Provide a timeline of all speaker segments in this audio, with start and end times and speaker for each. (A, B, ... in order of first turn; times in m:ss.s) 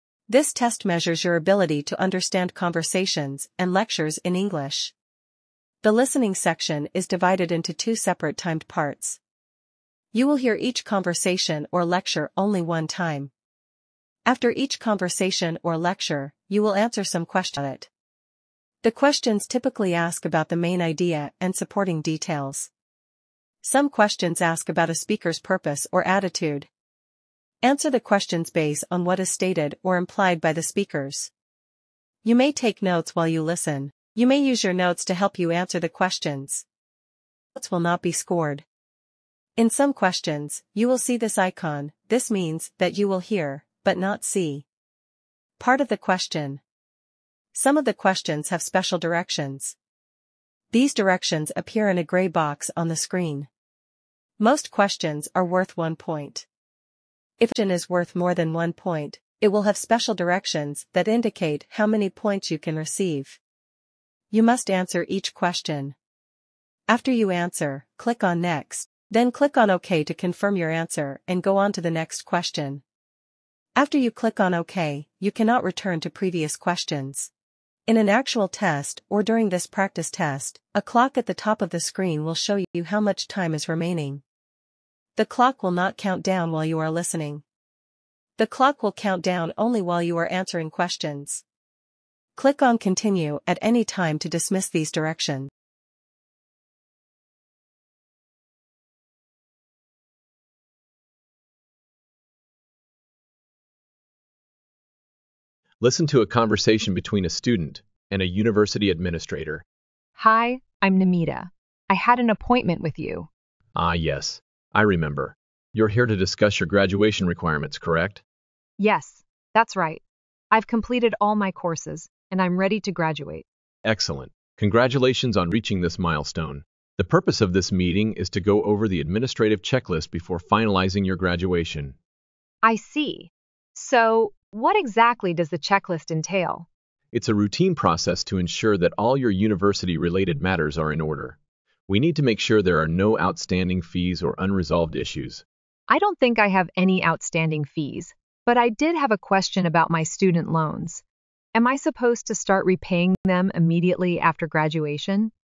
0:00.3-0:04.9 A
0:05.8-0:09.2 A
0:10.1-0:13.3 A
0:14.3-0:17.9 A
0:18.8-0:22.7 A
0:23.6-0:26.7 A
0:27.6-0:31.3 A
0:32.2-0:36.6 A
0:37.6-0:38.6 A
0:39.6-0:44.7 A
0:45.6-0:46.6 A
0:47.5-0:49.8 A
0:50.7-0:53.5 A
0:54.4-0:56.5 A
0:57.4-1:03.4 A
1:04.3-1:06.0 A
1:06.9-1:12.8 A
1:13.8-1:17.3 A
1:17.9-1:24.2 A
1:25.2-1:27.4 A
1:28.4-1:31.4 A
1:32.4-1:35.5 A
1:45.8-1:49.6 B
1:50.2-1:53.3 C
1:53.8-1:58.2 B
1:58.8-2:03.5 C
2:03.8-2:12.0 B
2:12.6-2:16.7 C
2:17.1-2:21.4 B
2:21.9-2:25.4 B
2:25.9-2:31.0 C
2:31.6-2:35.3 C